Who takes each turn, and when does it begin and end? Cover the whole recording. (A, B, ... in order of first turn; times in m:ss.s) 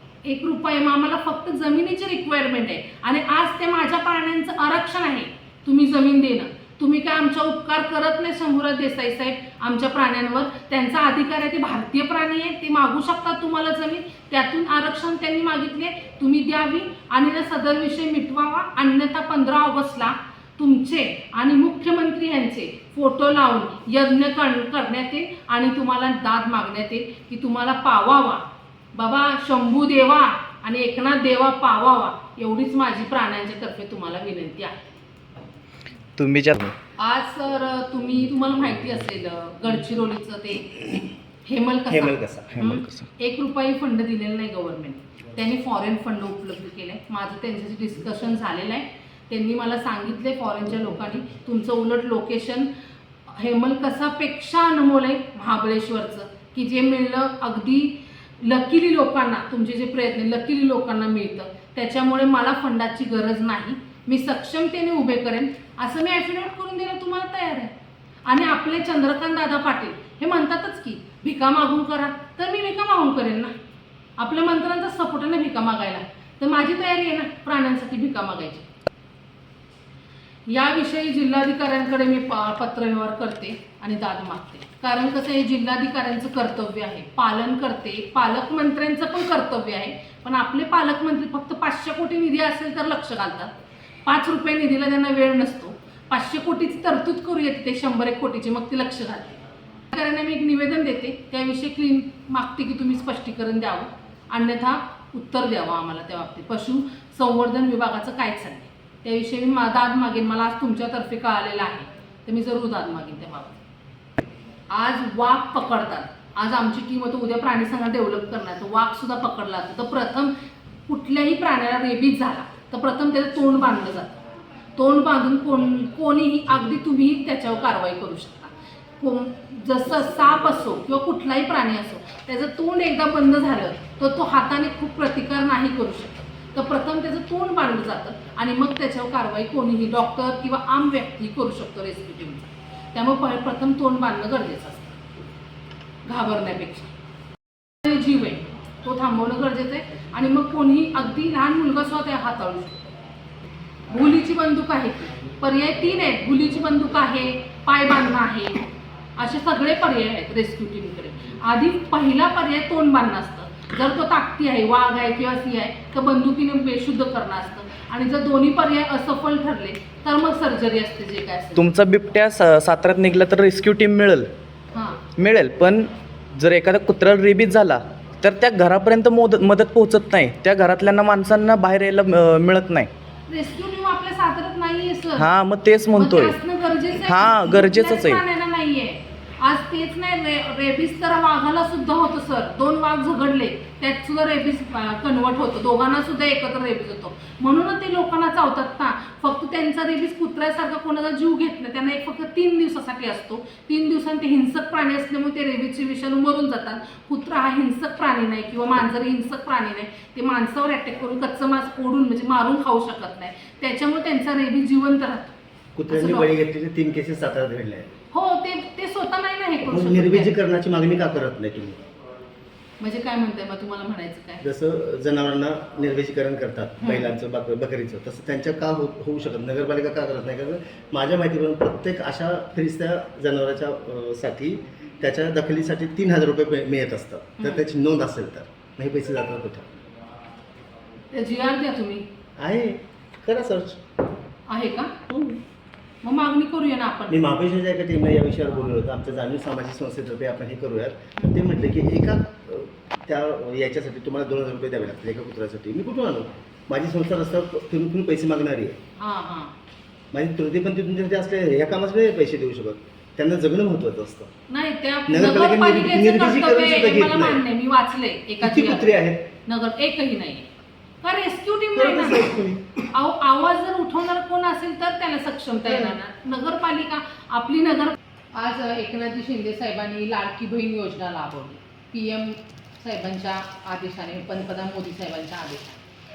0:00.2-0:34.8 A
0:36.2-0:36.8 B
0:37.0-0:52.7 A
0:41.9-0:42.6 C
0:42.6-0:43.1 B
0:53.3-1:07.7 A
1:08.3-1:13.6 A
1:14.2-1:18.7 A
1:20.5-1:53.6 A
1:54.7-2:00.3 A
2:00.9-2:04.2 A
2:04.8-2:25.0 A
2:26.1-2:26.9 A
2:27.8-2:32.8 A
2:33.9-2:38.6 A
2:39.2-2:51.7 A
2:51.6-2:54.3 B
2:54.7-2:55.0 A
2:55.2-3:02.9 B
3:03.3-3:05.3 A
3:05.2-3:06.4 B
3:05.9-3:35.4 A
3:06.9-3:08.2 B
3:35.8-3:37.9 C
3:35.9-3:36.3 A
3:38.1-3:40.4 A
3:39.7-3:41.8 C
3:42.8-3:44.5 A
3:44.4-3:59.7 C
3:46.8-3:47.1 A
3:57.4-3:57.7 A
4:01.1-4:02.1 A
4:02.4-4:03.8 C
4:04.5-4:05.0 A
4:05.1-4:05.4 C
4:06.0-4:07.2 A
4:07.1-4:18.8 C
4:19.0-4:19.6 A
4:20.1-4:24.3 C
4:24.5-4:28.9 A
4:25.1-4:27.4 C
4:28.4-4:29.3 C
4:29.4-4:30.5 A
4:31.0-4:45.8 A
4:31.8-4:32.7 C
4:35.6-4:36.0 C